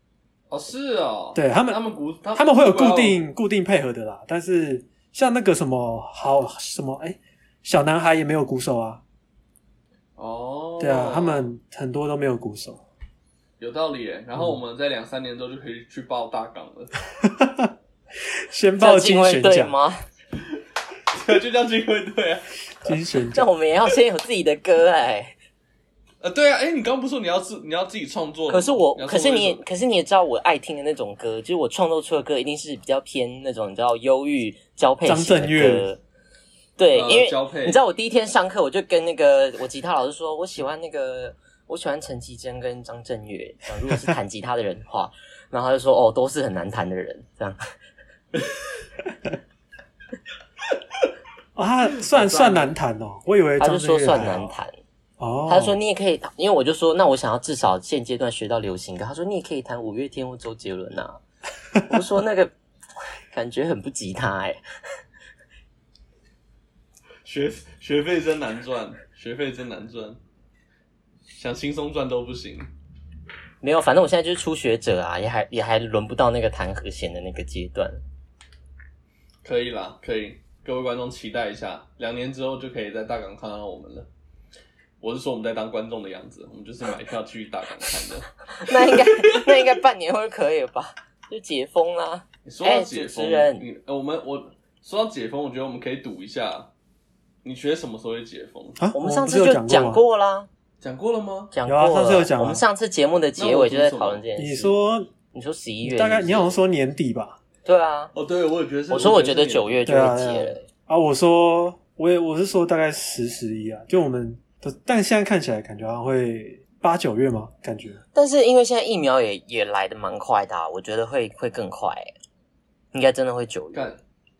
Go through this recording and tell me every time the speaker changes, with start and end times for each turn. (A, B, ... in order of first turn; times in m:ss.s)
0:00.5-0:03.2 A
0:01.3-0:01.8 B
0:02.4-0:09.0 B
0:10.2-0:11.5 A
0:10.8-0:12.8 B
0:13.6-0:16.9 A
0:17.2-0:17.7 B
0:18.5-0:19.7 B
0:18.8-0:20.0 C
0:21.1-0:22.4 A
0:22.8-0:23.5 B
0:23.3-0:25.4 C
0:26.2-0:29.6 A
0:28.5-0:36.0 C
0:35.0-0:35.9 B
0:36.8-0:47.6 C
0:36.9-0:37.8 A
0:51.6-0:54.5 B
0:52.0-0:52.7 A
0:53.6-0:54.7 C
0:55.2-0:55.8 B
0:55.5-1:01.2 C
1:01.8-1:02.5 C
1:03.3-1:04.6 C
1:07.2-1:10.2 A
1:11.4-1:12.7 A
1:13.6-1:18.0 C
1:19.4-1:24.1 A
1:25.0-1:29.1 A
1:28.6-1:33.6 C
1:32.4-1:36.7 A
1:37.4-1:38.8 A
1:38.8-1:40.0 B
1:38.9-1:40.5 C
1:40.8-1:41.5 A
1:41.5-1:44.7 C
1:41.6-1:42.6 B
1:43.4-1:44.2 A
1:44.4-1:45.1 B
1:45.3-1:46.6 C
1:45.8-1:47.4 B
1:47.6-1:48.1 C
1:48.1-1:49.8 A
1:48.9-1:50.6 C
1:49.8-1:58.0 B
1:58.1-2:02.1 C
2:02.9-2:03.9 C
2:03.7-2:04.0 A